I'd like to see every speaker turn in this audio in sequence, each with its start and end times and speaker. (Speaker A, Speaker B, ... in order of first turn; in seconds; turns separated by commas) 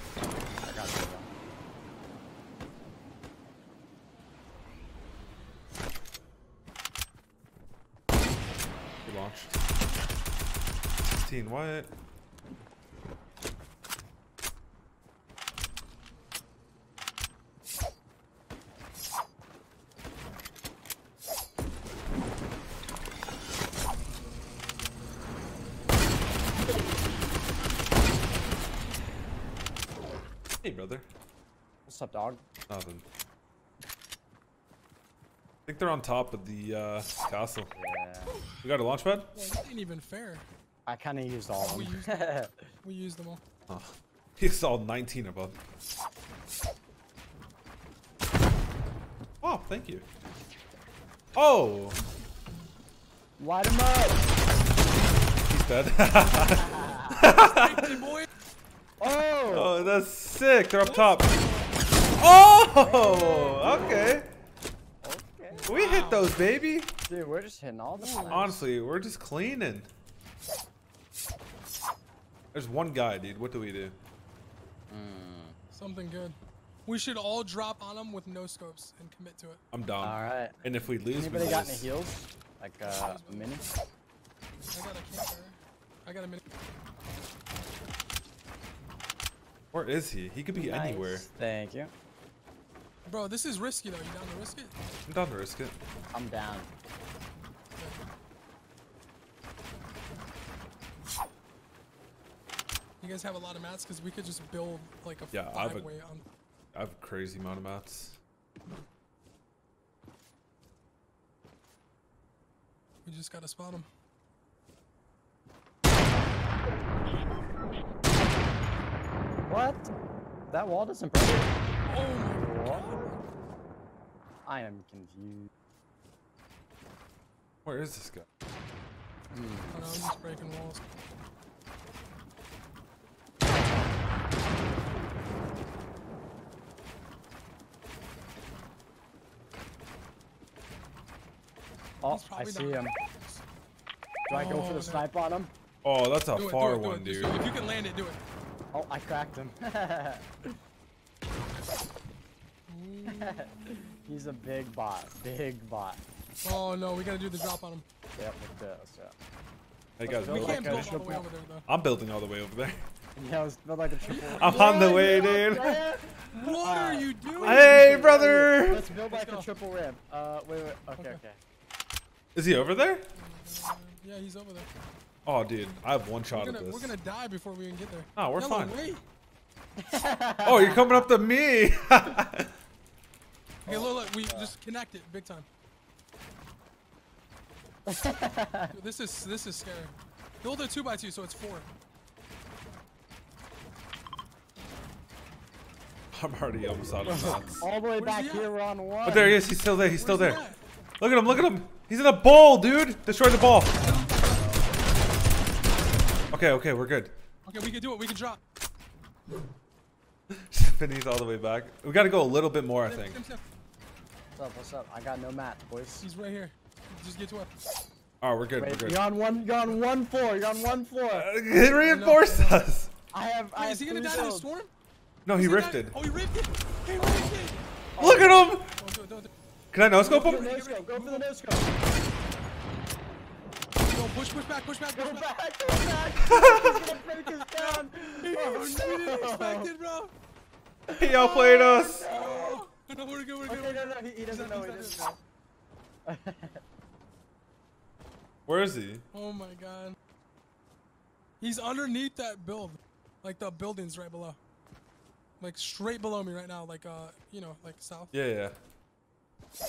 Speaker A: 0.4-1.3, Speaker B: 9.0-9.6, Speaker B: 11.0-11.9, Speaker B: 30.6-31.1, Speaker A: 31.9-32.4, Speaker B: 32.7-33.0, Speaker B: 35.7-37.7, Speaker A: 37.7-38.3, Speaker B: 38.6-39.3, Speaker C: 39.3-40.4, Speaker A: 40.9-42.7, Speaker C: 41.6-43.4, Speaker B: 43.7-45.6, Speaker B: 49.4-50.0, Speaker B: 51.3-52.0, Speaker A: 53.4-54.2, Speaker B: 55.5-58.0, Speaker A: 56.5-57.2, Speaker C: 57.3-58.3, Speaker A: 59.0-60.0, Speaker B: 59.5-61.3, Speaker C: 60.8-61.7, Speaker B: 62.2-64.3, Speaker A: 62.7-64.0, Speaker A: 65.0-65.7, Speaker C: 65.5-66.4, Speaker B: 65.7-66.9, Speaker A: 67.1-68.7, Speaker C: 68.0-68.5, Speaker B: 68.3-69.9, Speaker B: 72.5-74.0, Speaker A: 74.9-75.5, Speaker C: 75.7-79.6, Speaker B: 79.7-81.9, Speaker A: 80.0-83.6, Speaker C: 82.8-83.6, Speaker C: 84.7-86.4, Speaker B: 89.7-91.3, Speaker A: 90.5-91.9, Speaker C: 93.0-94.7, Speaker B: 95.1-95.8, Speaker A: 96.1-96.7, Speaker C: 103.0-106.2, Speaker B: 105.3-105.9, Speaker B: 106.7-108.2, Speaker C: 113.0-113.9, Speaker A: 119.5-119.9, Speaker A: 120.5-121.5, Speaker C: 121.8-123.2, Speaker A: 122.3-123.1, Speaker A: 124.5-125.5, Speaker B: 127.6-128.2, Speaker A: 129.3-129.8, Speaker C: 129.7-130.8, Speaker A: 142.0-142.9, Speaker C: 142.0-143.4, Speaker A: 144.3-145.5, Speaker C: 144.3-145.1, Speaker B: 145.8-147.4, Speaker C: 146.3-148.2, Speaker A: 148.7-150.5, Speaker C: 152.7-153.9, Speaker A: 153.0-156.0, Speaker C: 156.4-157.8, Speaker A: 158.2-159.1, Speaker B: 160.0-161.0, Speaker A: 160.0-161.3, Speaker C: 160.2-161.7, Speaker B: 161.7-162.8, Speaker A: 163.1-171.4, Speaker C: 164.0-165.3, Speaker B: 164.4-165.9, Speaker C: 166.3-168.0, Speaker B: 167.4-168.9, Speaker C: 168.9-169.5, Speaker B: 172.3-173.1, Speaker C: 173.1-174.7, Speaker B: 175.2-176.9, Speaker C: 176.3-179.0, Speaker B: 178.2-178.8, Speaker A: 179.8-181.1, Speaker B: 180.4-182.5, Speaker C: 183.6-185.4, Speaker A: 183.7-184.5, Speaker A: 187.9-188.7, Speaker C: 188.7-191.7, Speaker B: 196.1-197.6, Speaker A: 197.0-199.4, Speaker C: 197.9-198.5, Speaker B: 199.0-200.4, Speaker C: 199.8-200.6, Speaker B: 201.0-203.8, Speaker C: 203.8-204.6, Speaker B: 206.3-207.1, Speaker C: 207.4-208.4, Speaker B: 210.3-213.2, Speaker C: 212.8-213.4, Speaker A: 214.3-216.1, Speaker C: 216.0-217.5, Speaker B: 218.2-219.0, Speaker A: 218.6-221.3, Speaker B: 221.1-222.9, Speaker C: 221.8-222.6, Speaker A: 223.1-224.5, Speaker C: 223.6-224.7, Speaker B: 225.2-225.9, Speaker C: 225.3-227.7, Speaker A: 226.9-227.4, Speaker A: 227.9-228.5, Speaker B: 228.0-228.7, Speaker C: 228.8-229.3, Speaker B: 229.7-230.5, Speaker C: 230.0-231.3, Speaker A: 230.0-231.7, Speaker C: 233.9-235.2, Speaker A: 234.9-239.7, Speaker B: 236.2-236.8, Speaker C: 237.4-240.1, Speaker A: 240.9-242.7, Speaker B: 241.0-242.1, Speaker C: 242.0-245.0, Speaker A: 243.4-245.2, Speaker A: 246.1-246.6, Speaker B: 248.5-249.0, Speaker C: 249.1-249.9, Speaker C: 251.4-254.4, Speaker C: 255.4-258.1, Speaker B: 258.1-258.5